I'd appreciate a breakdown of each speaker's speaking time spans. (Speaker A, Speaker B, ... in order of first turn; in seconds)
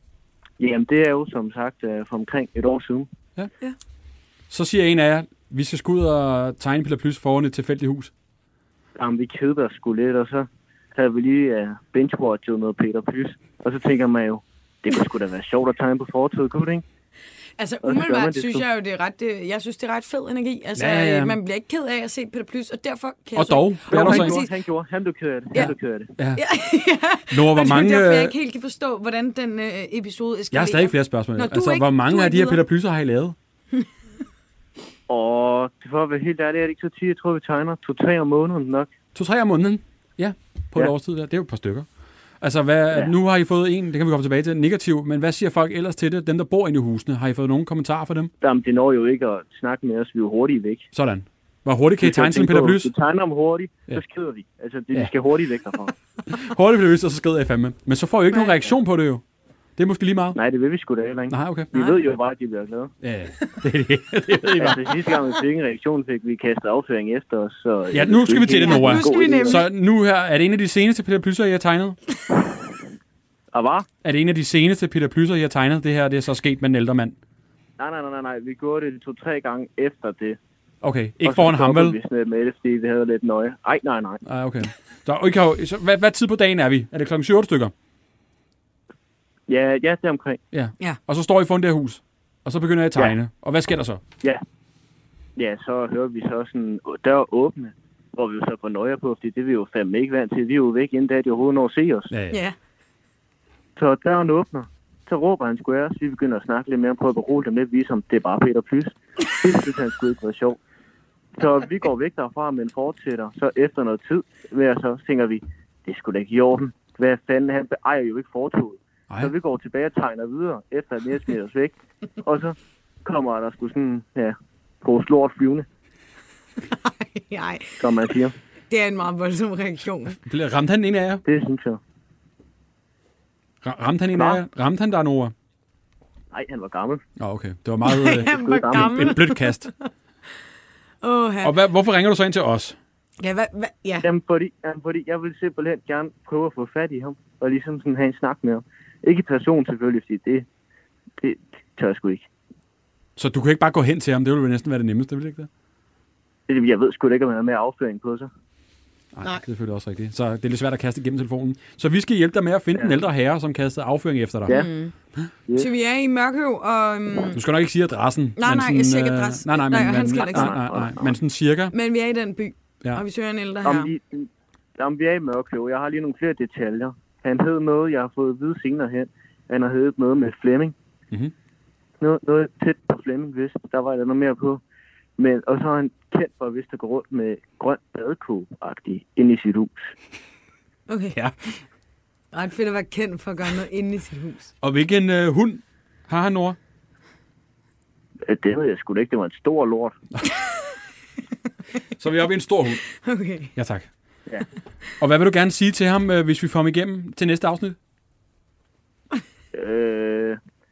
Speaker A: 0.6-3.1, 9.0-16.8, 17.8-18.6, 23.9-26.1, 35.1-38.9, 48.4-50.9, 52.0-55.9, 60.4-62.9, 64.6-69.6, 73.5-73.9, 77.8-80.4, 81.2-84.2, 89.5-90.4, 95.4-102.1, 103.8-110.6, 111.4-125.7, 127.8-128.3, 131.2-131.8, 134.2-134.4, 136.3-137.0, 138.2-139.1, 144.0-150.5, 151.2-152.3, 156.5-158.3, 164.5-164.7, 169.9-171.2, 173.6-180.8, 182.0-184.6, 185.2-189.9, 198.3-200.0, 209.5-210.4
Speaker B: 4.5-8.1, 20.8-21.4, 23.4-24.4, 25.6-26.4, 27.3-28.3, 30.5-33.4, 39.1-41.9, 42.4-48.3, 50.9-52.9, 56.3-59.2, 59.8-60.4, 61.3-61.7, 63.0-64.9, 67.9-72.0, 74.0-77.2, 80.8-82.0, 84.2-87.7, 90.5-94.0, 102.1-102.4, 130.2-131.2, 133.6-135.3, 137.2-139.7, 141.4-142.8, 153.2-155.5, 159.1-164.6, 167.3-171.7, 194.6-196.6, 202.0-202.8, 203.6-203.9, 205.0-207.8
Speaker C: 17.6-24.5, 26.4-32.6, 68.6-69.6, 126.7-127.8, 128.7-130.2, 137.8-139.9, 141.0-141.6, 143.2-144.1, 164.5-164.9, 165.6-167.4, 168.4-170.6, 171.7-173.9, 190.9-191.2, 192.3-194.5, 203.0-203.5